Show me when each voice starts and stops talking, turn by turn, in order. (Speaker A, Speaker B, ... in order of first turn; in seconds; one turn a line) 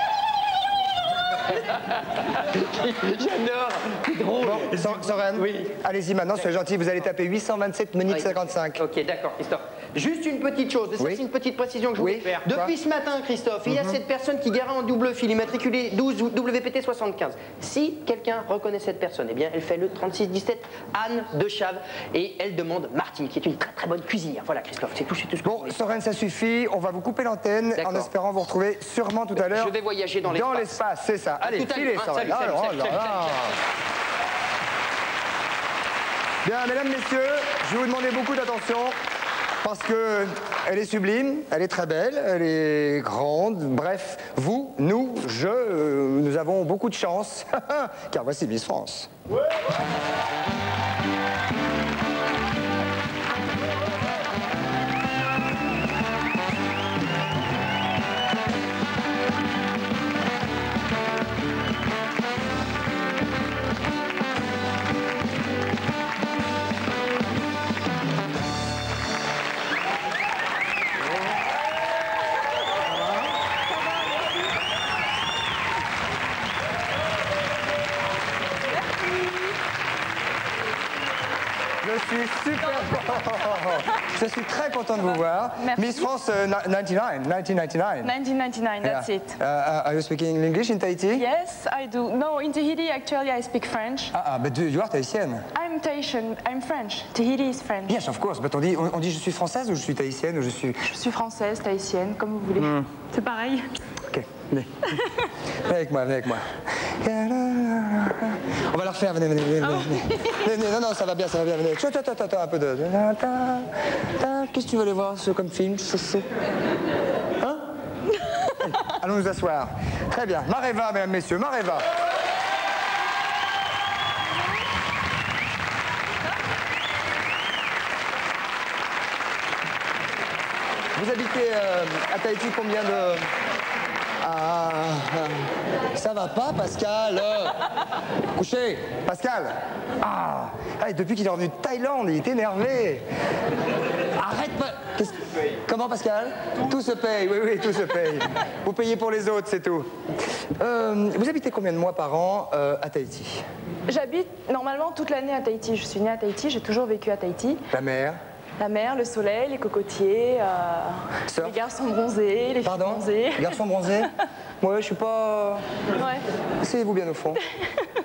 Speaker A: 2.5-5.7
Speaker B: 4.4-8.8
Speaker A: 8.1-25.8
Speaker B: 11.0-11.2
Speaker B: 12.0-12.7
Speaker B: 13.7-13.9
Speaker B: 25.4-29.8
Speaker A: 27.7-28.1
Speaker A: 29.4-30.7
Speaker B: 30.3-33.5
Speaker A: 31.4-33.5
Speaker B: 36.4-39.0
Speaker B: 39.6-49.1
Speaker B: 72.8-73.3
Speaker B: 81.8-88.1
Speaker C: 82.6-83.8
Speaker C: 85.6-86.1
Speaker C: 88.0-89.4
Speaker B: 88.8-91.2
Speaker C: 91.1-94.1
Speaker B: 94.1-95.5
Speaker C: 95.5-98.0
Speaker B: 97.9-100.8
Speaker C: 100.8-103.6
Speaker B: 102.6-102.9
Speaker B: 104.1-105.0
Speaker B: 105.7-116.3
Speaker B: 117.4-117.7
Speaker B: 118.6-121.9
Speaker B: 130.9-133.3
Speaker B: 134.2-137.6
Speaker B: 138.3-143.1
Speaker B: 144.2-149.9
Speaker B: 150.6-153.4
Speaker C: 153.9-157.6
Speaker B: 157.7-158.2
Speaker C: 158.6-163.6
Speaker B: 161.3-161.6
Speaker B: 162.6-165.6
Speaker C: 165.9-166.2
Speaker B: 166.6-167.4